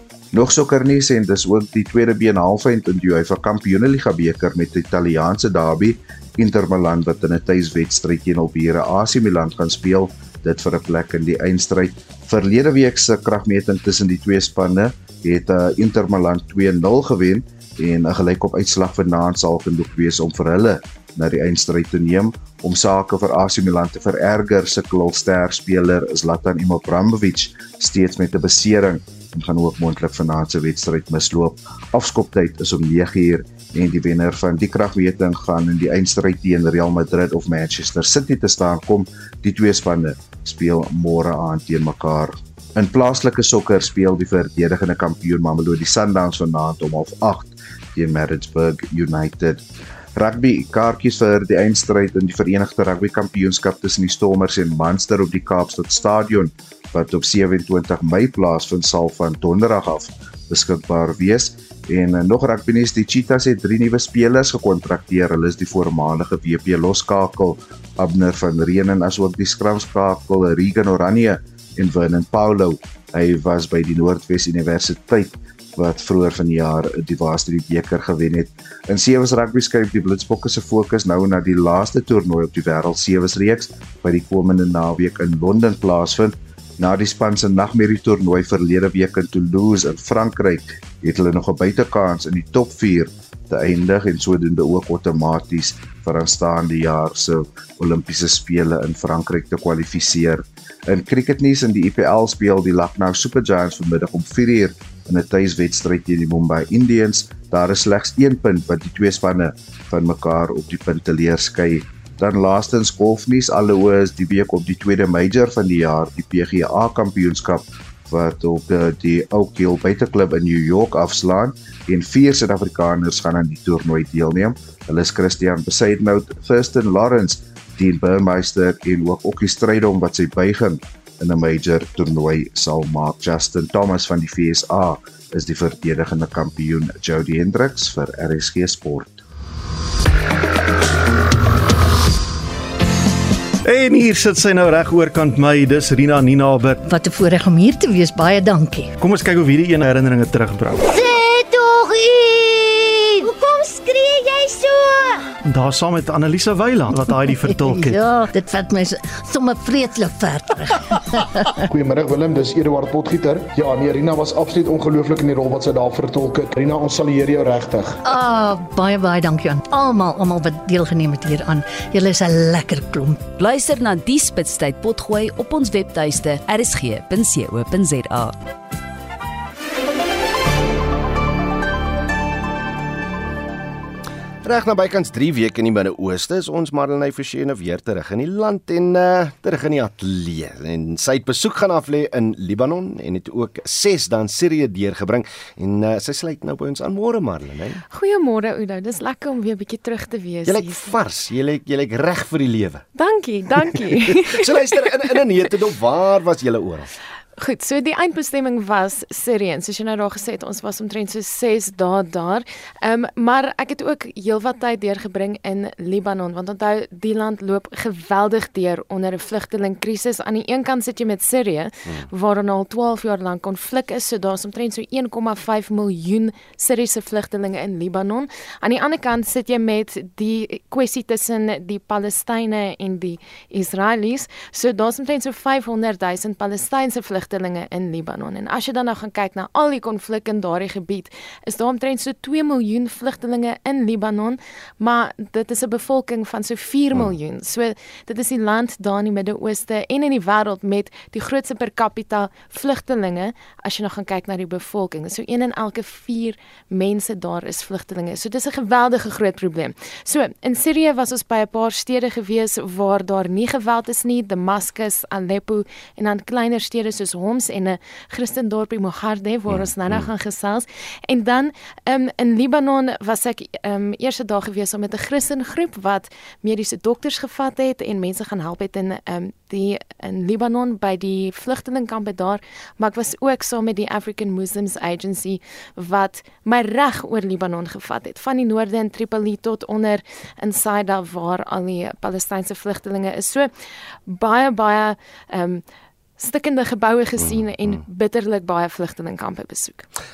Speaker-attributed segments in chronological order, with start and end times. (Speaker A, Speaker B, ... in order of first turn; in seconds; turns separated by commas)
Speaker A: 0.3-49.6, Speaker A: 50.1-139.2, Speaker B: 143.7-146.8, Speaker C: 146.8-148.9, Speaker B: 149.0-150.8, Speaker C: 150.8-155.2, Speaker B: 155.5-158.0, Speaker C: 157.4-161.3, Speaker D: 161.7-167.9, Speaker C: 168.0-173.3, Speaker E: 173.4-178.3, Speaker F: 184.4-197.8, Speaker G: 197.9-200.9, Speaker F: 200.4-202.8, Speaker G: 202.9-204.8, Speaker F: 203.8-206.9, Speaker G: 207.4-293.5, Speaker F: 269.5-270.1, Speaker G: 294.1-295.6, Speaker G: 296.2-299.9, Speaker F: 297.2-297.8